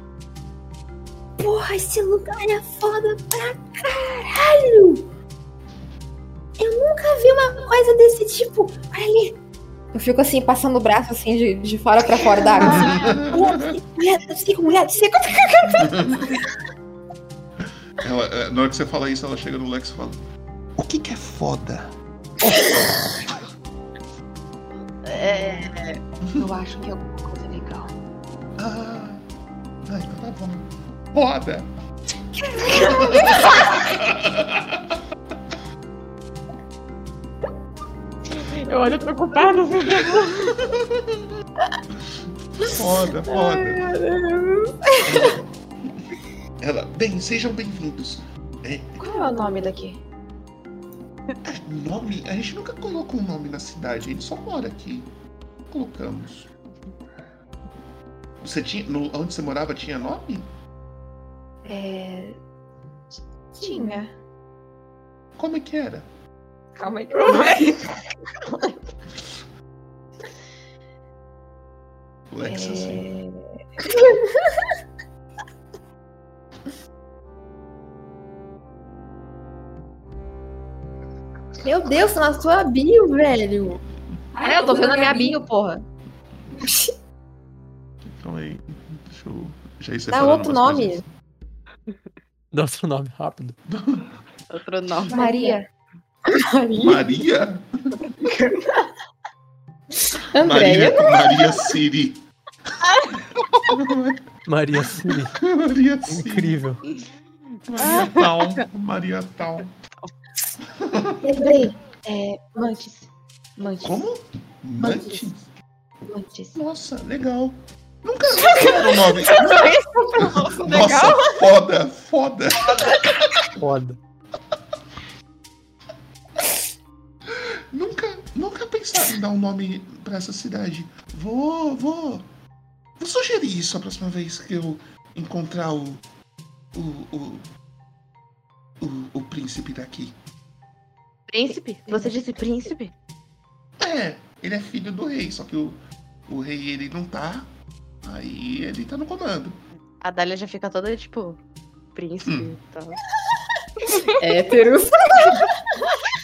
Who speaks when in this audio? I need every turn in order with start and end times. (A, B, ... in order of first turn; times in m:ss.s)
0:01.4-0:05.1 A
0:06.6-0:09.4 A
0:10.0-0:13.0 B
0:10.6-0:11.1 A
0:11.9-0:16.2 A
0:12.6-0:13.7 C
0:15.8-0:16.2 C
0:17.6-0:20.2 C
0:20.8-0:21.9 C
0:22.4-0:22.9 A
0:25.0-0:26.0 D
0:26.4-0:27.9 B
0:28.6-0:29.2 C
0:29.9-0:31.7 C
0:32.4-0:33.8 A
0:32.7-0:33.6 B
0:32.9-0:35.0 C
0:38.6-0:40.4 B
0:40.4-0:40.8 C
0:42.6-0:43.8 C
0:43.4-0:45.3 A
0:45.0-0:46.0 C
0:46.6-0:49.0 C
0:49.0-0:50.0 B
0:51.4-0:55.0 C
0:55.7-0:56.5 C
0:58.4-1:00.5 C
1:01.6-1:02.4 B
1:03.1-1:04.1 B
1:03.6-1:04.0 A
1:05.4-1:06.1 C
1:06.8-1:08.0 B
1:12.3-1:13.1 C
1:12.4-1:13.4 B
1:21.6-1:22.1 C
1:21.6-1:23.8 A
1:24.4-1:25.4 B
1:24.4-1:25.8 A
1:26.6-1:26.9 A
1:28.1-1:31.1 C
1:30.1-1:31.0 A
1:32.5-1:33.6 E
1:33.7-1:34.2 C
1:34.5-1:35.2 D
1:35.1-1:35.6 B
1:35.1-1:35.6 A
1:36.3-1:37.1 B
1:36.8-1:37.6 C
1:38.2-1:38.9 B
1:40.4-1:41.2 B
1:40.4-1:40.9 A
1:40.4-1:44.2 C
1:44.5-1:45.4 E
1:44.8-1:46.6 C
1:46.1-1:46.8 E
1:47.7-1:49.7 C
1:47.8-1:48.1 D
1:50.7-1:51.2 C
1:51.3-1:54.0 B
1:51.3-1:51.6 A
1:53.8-1:55.5 C
1:54.8-1:55.3 B
1:56.1-1:56.6 B
1:56.6-2:03.5 C
1:59.3-2:01.3 B
1:59.4-2:01.0 A
2:02.7-2:03.0 B
2:03.6-2:04.0 E
2:07.3-2:12.3 C
2:13.0-2:16.0 C
2:16.7-2:17.4 C
2:18.8-2:20.1 C
2:21.3-2:22.9 D
2:23.8-2:27.5 C
2:28.0-2:29.6 C
2:30.0-2:31.4 D
2:32.0-2:33.0 D
2:32.3-2:32.5 C
2:33.8-2:34.1 D
2:34.2-2:35.3 A
2:34.2-2:34.7 B